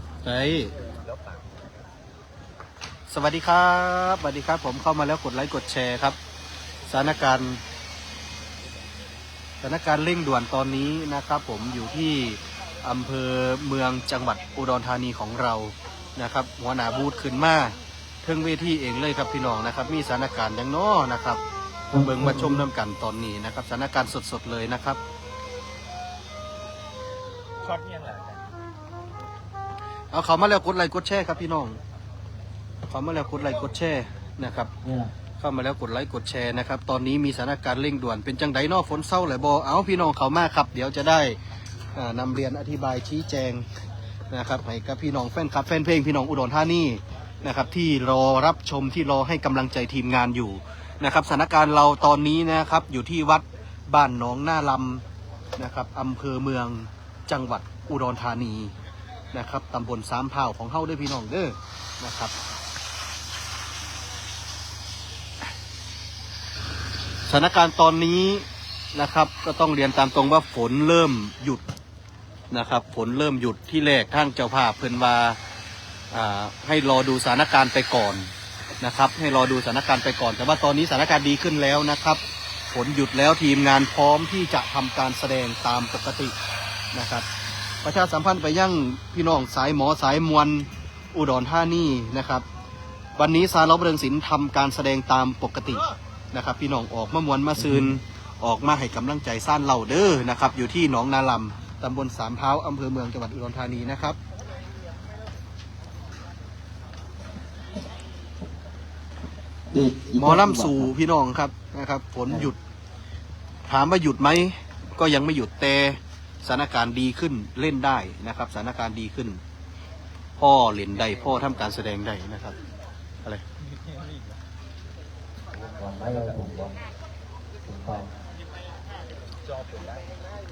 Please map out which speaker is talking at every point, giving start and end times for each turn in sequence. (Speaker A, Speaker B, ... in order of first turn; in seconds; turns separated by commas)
Speaker A: 0.2-0.7, Speaker B: 0.8-1.6, Speaker A: 3.1-6.2, Speaker A: 6.9-7.6, Speaker A: 9.6-21.4, Speaker C: 21.9-22.6, Speaker A: 21.9-25.0, Speaker B: 27.6-28.4, Speaker A: 30.1-31.8, Speaker A: 32.9-34.7, Speaker C: 34.8-35.1, Speaker A: 35.4-41.4, Speaker A: 41.9-43.7, Speaker A: 44.3-55.0, Speaker A: 55.6-58.7, Speaker A: 59.3-62.3, Speaker A: 67.3-71.6, Speaker A: 72.5-75.4, Speaker A: 76.1-86.3, Speaker A: 86.9-87.3, Speaker A: 87.8-92.4, Speaker A: 93.2-104.2, Speaker C: 109.7-110.9, Speaker A: 110.2-112.6, Speaker A: 113.7-119.4, Speaker A: 120.4-122.6, Speaker B: 123.7-124.4, Speaker C: 125.7-126.7, Speaker C: 127.7-128.1, Speaker B: 129.4-130.2